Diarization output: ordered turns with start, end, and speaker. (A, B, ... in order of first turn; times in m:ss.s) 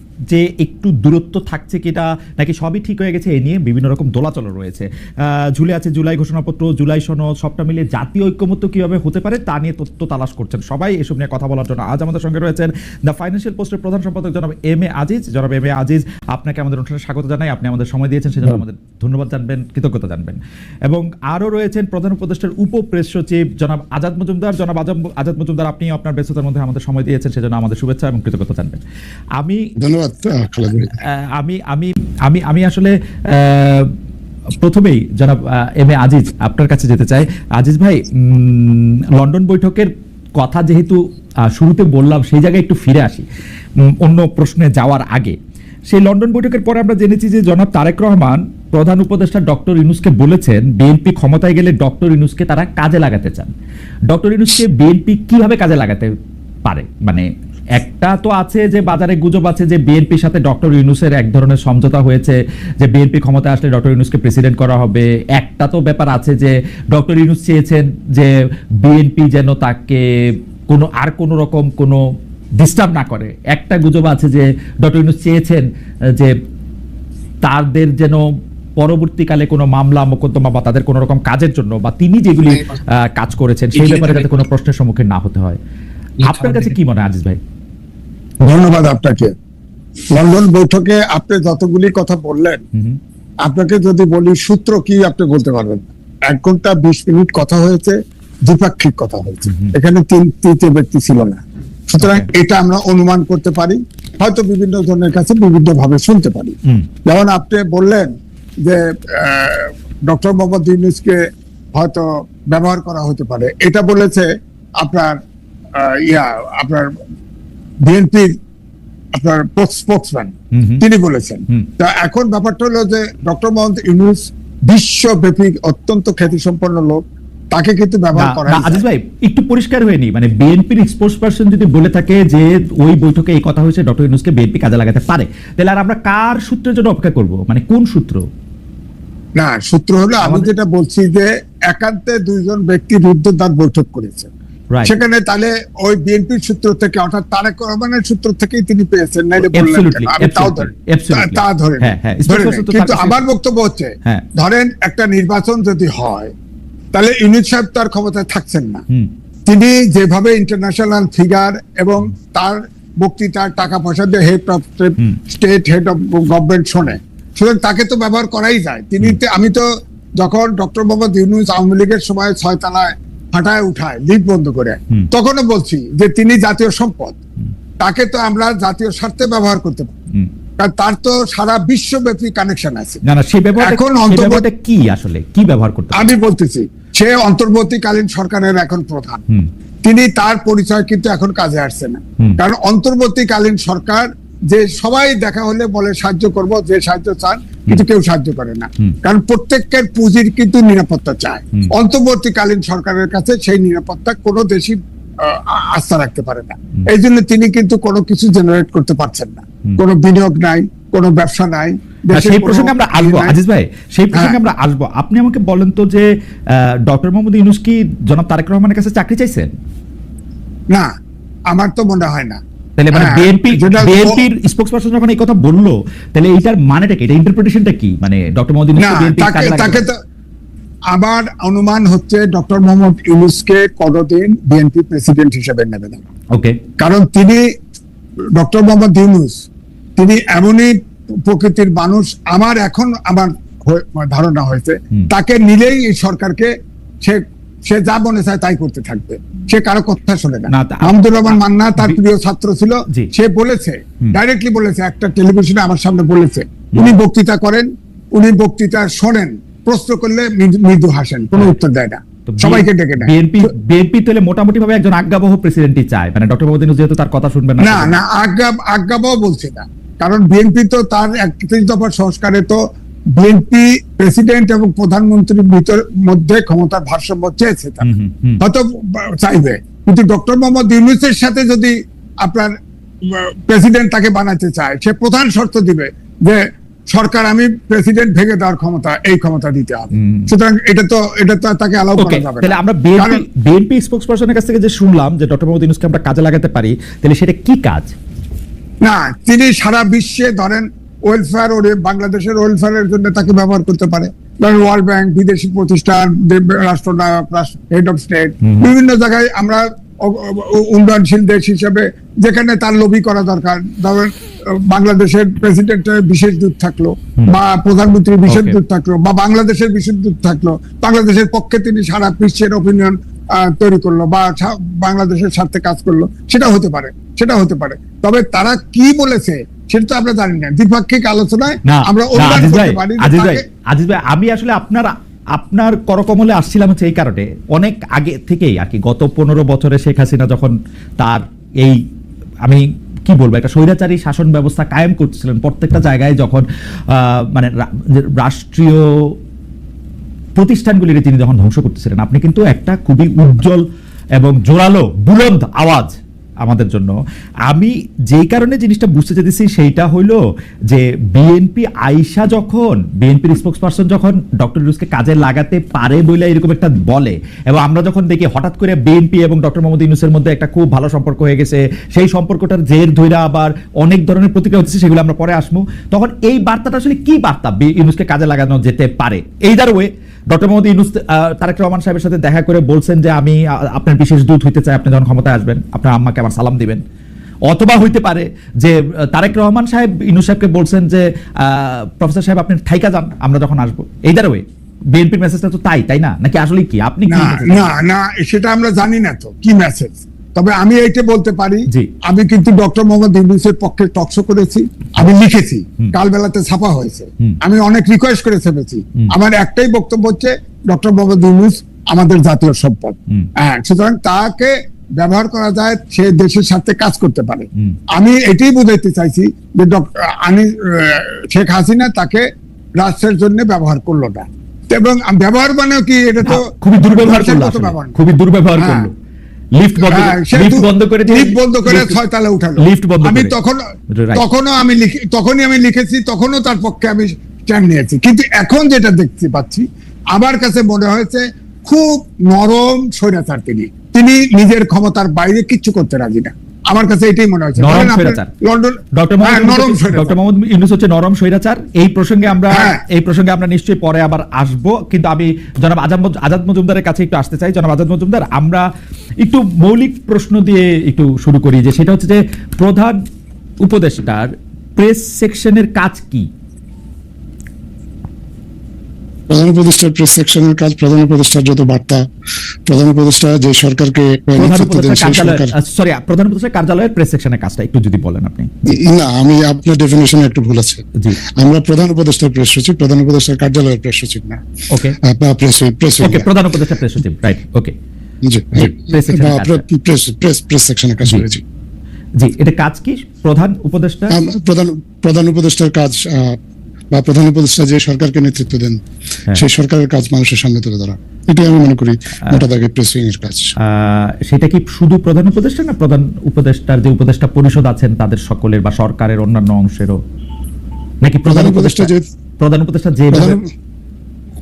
0:00.3-0:28.8 A
0:29.4-0:29.7 A
0:29.8-0:31.0 B
0:31.0-0:33.9 A
0:34.6-0:43.2 A
0:44.0-0:45.4 A
0:45.9-0:53.5 A
0:54.1-1:12.0 A
1:12.6-1:16.3 A
1:17.4-1:18.2 A
1:18.8-1:25.6 A
1:26.2-1:27.4 A
1:28.4-1:29.3 C
1:30.1-1:32.6 C
1:32.7-1:33.0 A
1:33.4-1:46.6 C
1:42.0-1:42.3 A
1:47.1-1:48.1 C
1:48.6-1:51.2 C
1:51.7-1:54.3 C
1:54.8-1:55.2 C
1:55.8-1:56.9 C
1:57.8-1:58.3 C
1:59.2-2:08.8 C
2:00.5-2:00.8 A
2:08.2-2:18.3 A
2:19.4-2:24.3 C
2:20.2-2:20.5 A
2:24.9-2:36.3 C
2:29.5-2:33.2 A
2:36.9-2:38.8 C
2:39.5-2:49.6 C
2:50.2-2:57.2 C
2:57.8-3:00.0 C
3:00.6-3:03.0 C
3:03.0-3:06.1 A
3:03.6-3:04.4 C
3:05.9-3:09.2 C
3:09.8-3:33.4 C
3:32.1-3:39.5 A
3:34.1-3:34.4 C
3:41.5-3:42.4 C
3:42.8-3:49.8 A
3:42.9-3:44.3 C
3:48.8-3:50.0 C
3:50.9-3:56.0 C
3:56.8-3:57.4 C
3:58.4-3:59.4 C
4:00.0-4:23.5 C
4:10.5-4:12.0 A
4:22.3-4:28.0 A
4:27.6-4:32.6 C
4:33.2-4:37.9 C
4:37.8-4:38.4 A
4:38.4-4:53.2 C
4:49.9-4:50.3 A
4:52.0-4:58.0 A
4:58.8-5:33.4 C
5:08.4-5:08.7 A
5:18.3-5:18.6 A
5:31.7-5:41.8 A
5:42.4-5:49.1 A
5:50.4-5:53.6 A
5:54.2-5:57.0 A
5:57.5-6:26.8 A
6:27.5-6:37.7 A
6:37.1-7:02.2 C
7:02.8-7:08.0 C
7:06.2-7:08.9 A
7:08.6-7:08.9 C
7:09.6-7:12.0 A
7:09.8-7:13.6 C
7:12.6-7:13.3 A
7:13.9-7:14.3 A
7:14.2-7:30.2 C
7:27.6-7:28.3 A
7:28.9-7:38.7 A
7:32.5-7:32.8 C
7:39.2-7:43.0 A
7:43.6-7:46.3 A
7:49.3-7:52.0 B
7:52.7-7:55.5 B
7:54.4-7:58.8 A
7:58.7-8:00.8 B
8:01.4-8:04.4 B
8:04.7-8:05.0 A
8:05.0-8:06.3 B
8:06.0-8:07.7 A
8:08.2-8:11.4 B
8:08.6-8:09.6 A
8:12.2-8:14.2 A
8:14.1-8:16.4 B
8:16.9-8:18.8 B
8:19.3-8:23.6 B
8:23.6-8:30.0 A
8:31.0-8:33.4 A
8:31.3-8:32.1 B
8:33.1-8:33.5 B